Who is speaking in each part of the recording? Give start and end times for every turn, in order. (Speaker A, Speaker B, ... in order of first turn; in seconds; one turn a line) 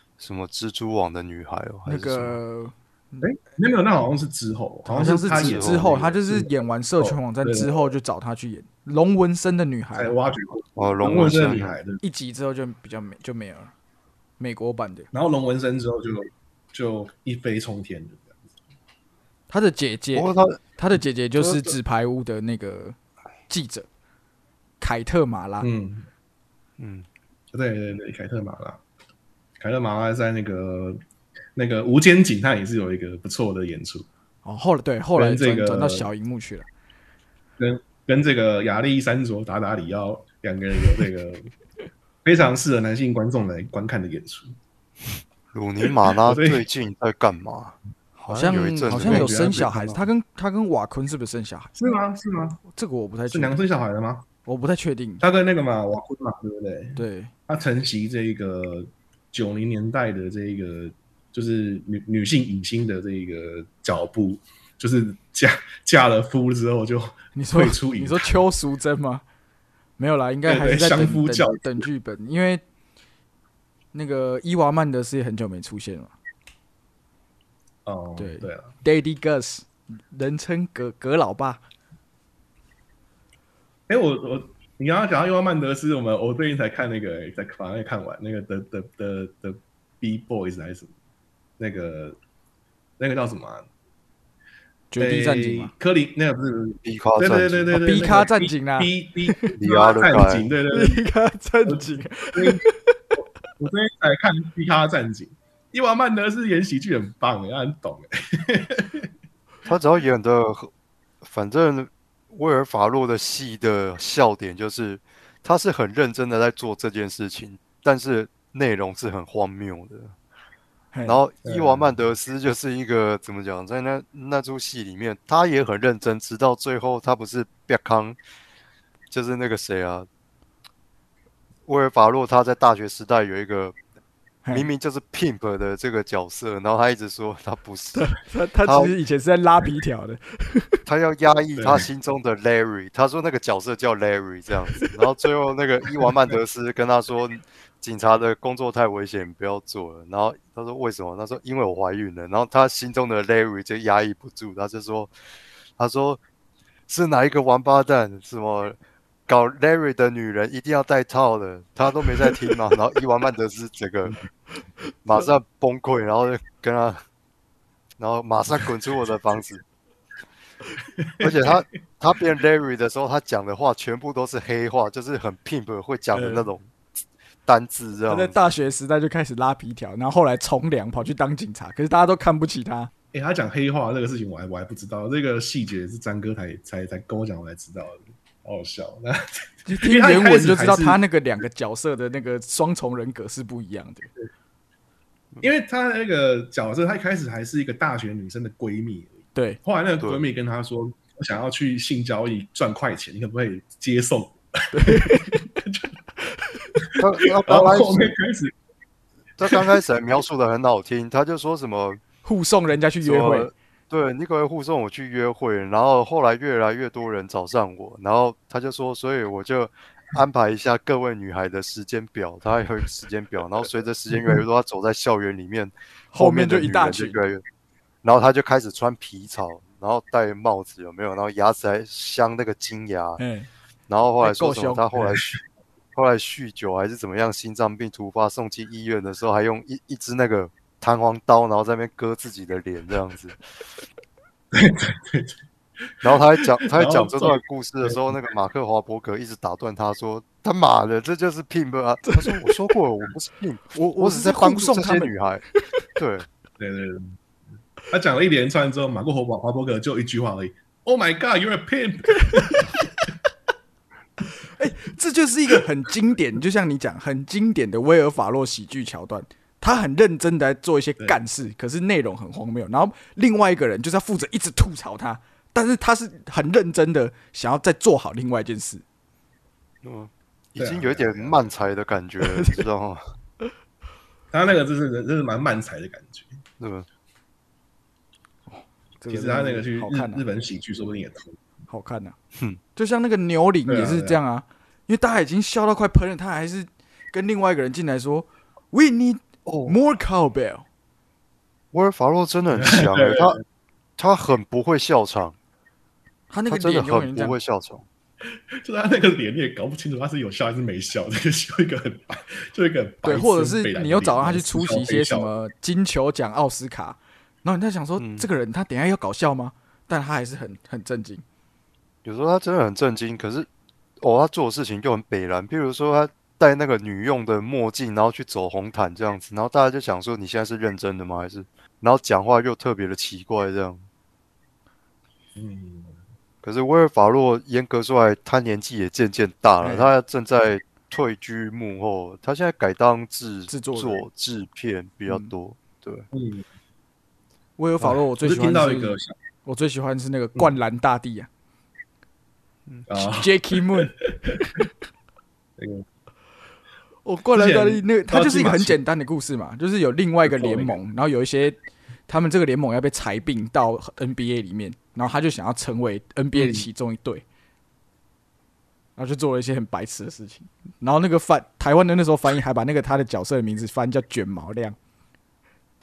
Speaker A: 0.2-2.4
Speaker B: 1.9-3.3
Speaker C: 3.2-7.9
Speaker B: 4.9-10.1
Speaker A: 5.3-5.9
Speaker C: 9.9-12.0
Speaker A: 10.8-11.8
Speaker B: 12.0-13.7
Speaker B: 14.4-15.1
Speaker C: 15.1-18.3
Speaker B: 19.5-22.9
Speaker A: 20.1-20.6
Speaker A: 21.4-21.8
Speaker B: 23.5-23.9
Speaker B: 24.8-25.7
Speaker C: 25.6-26.1
Speaker A: 26.8-27.1
Speaker C: 27.5-28.8
Speaker C: 29.6-31.0
Speaker C: 31.6-34.1
Speaker B: 34.4-36.7
Speaker C: 35.1-36.1
Speaker C: 37.6-41.5
Speaker C: 42.2-44.5
Speaker A: 45.5-49.7
Speaker C: 46.2-46.6
Speaker B: 48.3-51.7
Speaker C: 48.9-50.0
Speaker C: 51.8-52.6
Speaker B: 52.7-53.6
Speaker C: 53.3-54.2
Speaker B: 54.4-55.2
Speaker C: 55.2-68.4
Speaker B: 57.0-57.3
Speaker B: 67.3-69.2
Speaker B: 70.0-72.6
Speaker C: 70.5-71.9
Speaker B: 73.9-76.1
Speaker C: 77.8-78.7
Speaker B: 78.2-81.6
Speaker C: 83.9-90.9
Speaker C: 91.6-92.2
Speaker C: 93.0-93.7
Speaker B: 94.9-95.7
Speaker C: 95.0-101.0
Speaker A: 96.8-97.8
Speaker B: 97.7-99.5
Speaker A: 99.5-100.5
Speaker B: 100.7-103.0
Speaker C: 101.7-102.6
Speaker C: 103.6-109.1
Speaker A: 109.6-110.7
Speaker A: 111.2-120.1
Speaker B: 120.9-121.2
Speaker A: 121.0-128.2
Speaker C: 121.4-122.0
Speaker A: 129.1-130.1
Speaker A: 131.7-133.8
Speaker A: 134.5-138.9
Speaker B: 137.9-140.8
Speaker A: 140.8-155.1
Speaker C: 141.6-141.8
Speaker A: 155.8-156.2
Speaker A: 156.9-164.2
Speaker A: 165.0-167.0
Speaker A: 168.0-169.6
Speaker C: 171.0-171.5
Speaker A: 171.2-176.7
Speaker C: 176.1-176.5
Speaker A: 177.4-178.5
Speaker B: 178.1-182.9
Speaker C: 183.1-191.0
Speaker B: 189.7-194.1
Speaker C: 195.4-205.9
Speaker B: 199.3-199.6
Speaker B: 204.7-205.4
Speaker C: 206.8-208.5
Speaker A: 207.0-208.1
Speaker A: 209.4-212.0
Speaker B: 212.2-213.5
Speaker A: 213.0-227.4
Speaker B: 226.1-227.2
Speaker A: 228.0-233.2
Speaker B: 233.2-233.5
Speaker A: 233.9-235.3
Speaker B: 234.2-234.8
Speaker C: 234.9-235.4
Speaker A: 235.9-243.4
Speaker C: 244.5-245.4
Speaker A: 246.0-255.4
Speaker C: 246.6-248.1
Speaker B: 252.1-252.6
Speaker B: 253.7-255.1
Speaker A: 255.9-256.3
Speaker C: 256.6-257.2
Speaker C: 257.9-262.8
Speaker B: 262.4-262.8
Speaker B: 264.5-278.8
Speaker A: 279.8-283.0
Speaker C: 280.6-281.5
Speaker B: 282.3-282.6
Speaker C: 284.3-286.3
Speaker A: 286.6-286.9
Speaker B: 288.5-290.2
Speaker C: 289.1-291.4
Speaker B: 291.7-292.1
Speaker A: 292.3-292.6
Speaker B: 292.8-300.6
Speaker C: 293.7-294.2
Speaker A: 299.4-299.8
Speaker A: 301.7-303.4
Speaker C: 302.5-303.4
Speaker A: 304.0-305.4
Speaker B: 306.3-307.4
Speaker A: 306.5-307.9
Speaker C: 308.6-315.3
Speaker B: 313.0-321.2
Speaker A: 318.0-318.3
Speaker A: 322.0-323.5
Speaker A: 324.0-333.8
Speaker C: 335.4-335.9
Speaker A: 336.4-346.1
Speaker B: 339.6-339.9
Speaker B: 343.5-344.0
Speaker C: 346.1-346.4
Speaker B: 347.6-351.3
Speaker C: 347.8-349.1
Speaker C: 352.9-354.4
Speaker B: 352.9-354.6
Speaker C: 355.6-355.8
Speaker B: 357.0-367.2
Speaker C: 357.3-358.8
Speaker C: 360.2-360.8
Speaker C: 366.3-366.6
Speaker B: 369.0-374.8